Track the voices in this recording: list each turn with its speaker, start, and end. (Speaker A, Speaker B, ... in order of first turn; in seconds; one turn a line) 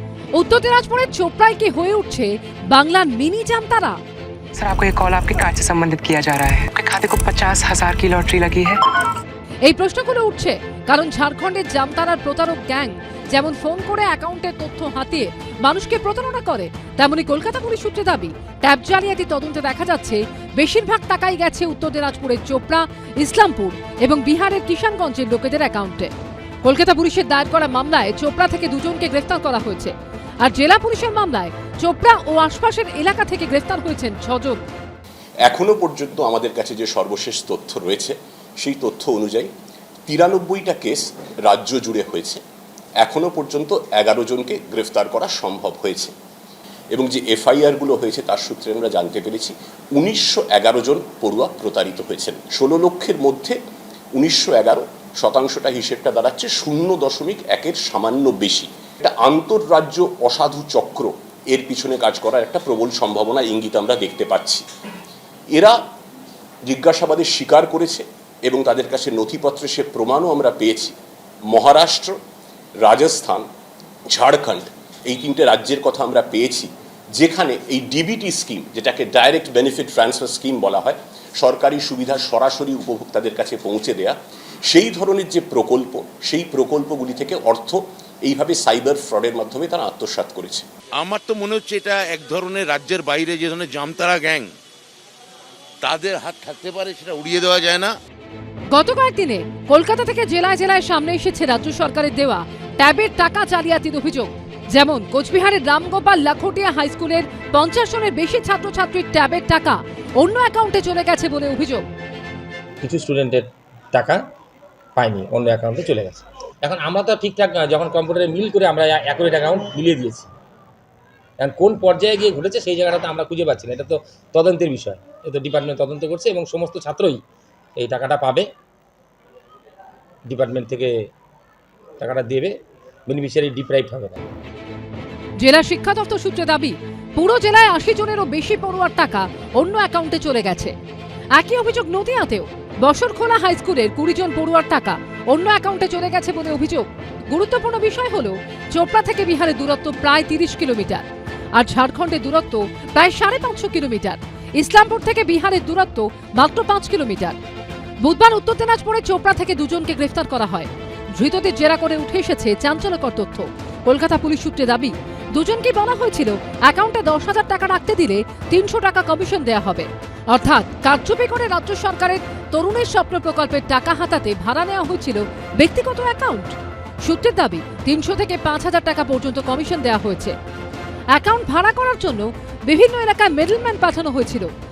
Speaker A: 0.3-4.0
Speaker B: 4.5-8.8
Speaker A: 9.6-26.1
Speaker A: 26.6-34.6
Speaker C: 35.5-39.5
Speaker C: 40.1-42.4
Speaker C: 43.0-46.1
Speaker C: 46.9-53.5
Speaker C: 54.1-64.6
Speaker C: 66.7-70.9
Speaker C: 71.5-72.2
Speaker C: 72.8-73.4
Speaker C: 74.1-84.1
Speaker C: 84.7-90.6
Speaker D: 91.0-94.5
Speaker D: 95.8-97.9
Speaker A: 98.7-111.8
Speaker E: 112.8-114.2
Speaker E: 115.0-120.3
Speaker E: 121.4-127.2
Speaker E: 127.8-128.5
Speaker E: 130.3-131.1
Speaker E: 132.0-132.6
Speaker E: 133.1-134.2
Speaker A: 135.4-140.7
Speaker A: 141.3-157.3
Speaker A: 158.0-176.5
Speaker A: 177.0-180.3
Speaker A: 181.1-184.5